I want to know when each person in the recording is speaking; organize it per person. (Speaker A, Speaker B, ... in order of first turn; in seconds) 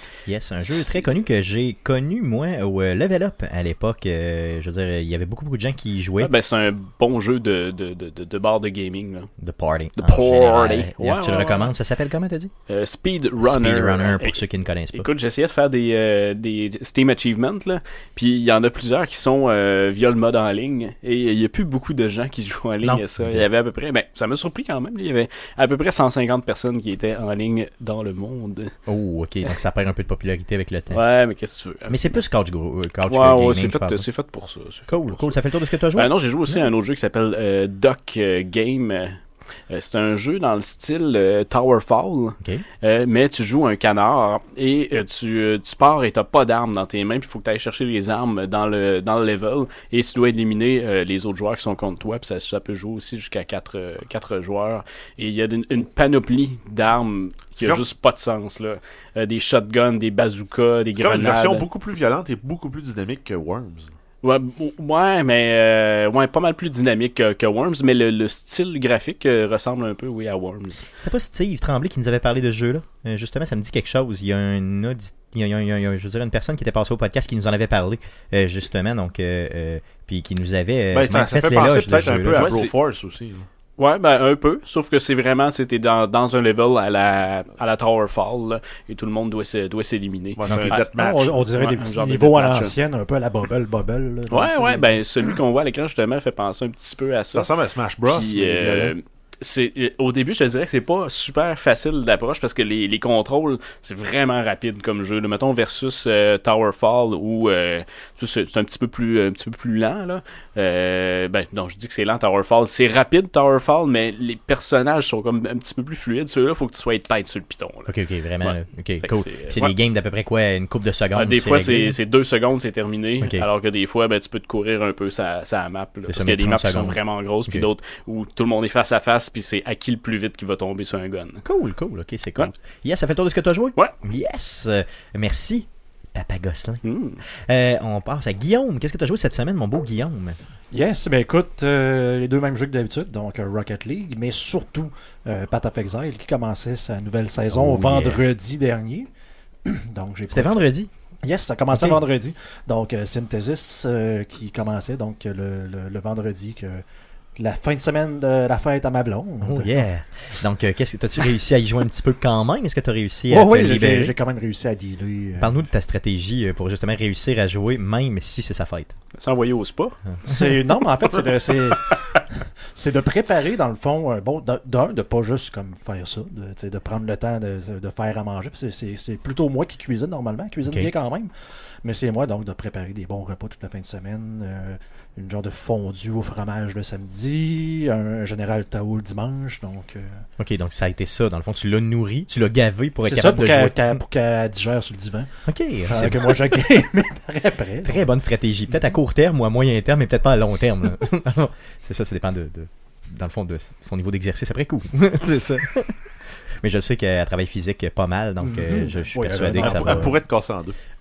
Speaker A: 0.2-6.3, 9.4-12.5, 13.4-15.1, 22.8-23.4, 28.9-31.0, 31.9-34.1, 34.9-36.6, 71.0-82.5, 90.5-90.7, 117.9-122.0, 123.2-123.5, 126.1-127.7, 131.4-140.4, 147.5-148.2, 150.3-150.9, 151.7-152.0, 159.4-164.1, 165.4-169.0, 180.7-180.9, 190.4-194.0, 195.5-196.6, 197.8-210.2
Speaker B: 6.2-9.3, 9.9-11.7, 12.7-14.4, 14.9-28.7, 30.9-32.2, 33.1-35.4, 35.9-39.2, 39.7-61.7, 64.2-70.8, 82.3-82.7, 83.8-90.9, 91.5-92.8, 94.3-97.5, 98.1-119.7, 121.1-131.4, 136.8-137.2, 169.2-170.0
Speaker C: 57.6-57.8, 61.0-63.9, 80.9-83.5, 90.3-91.4, 97.3-99.0, 209.6-210.8
Speaker D: 90.9-94.9, 140.7-149.1, 149.7-150.7, 151.2-156.8, 157.3-159.8, 163.3-165.7, 170.2-172.0, 172.7-181.3, 181.8-190.3, 193.0-198.1, 208.4-210.1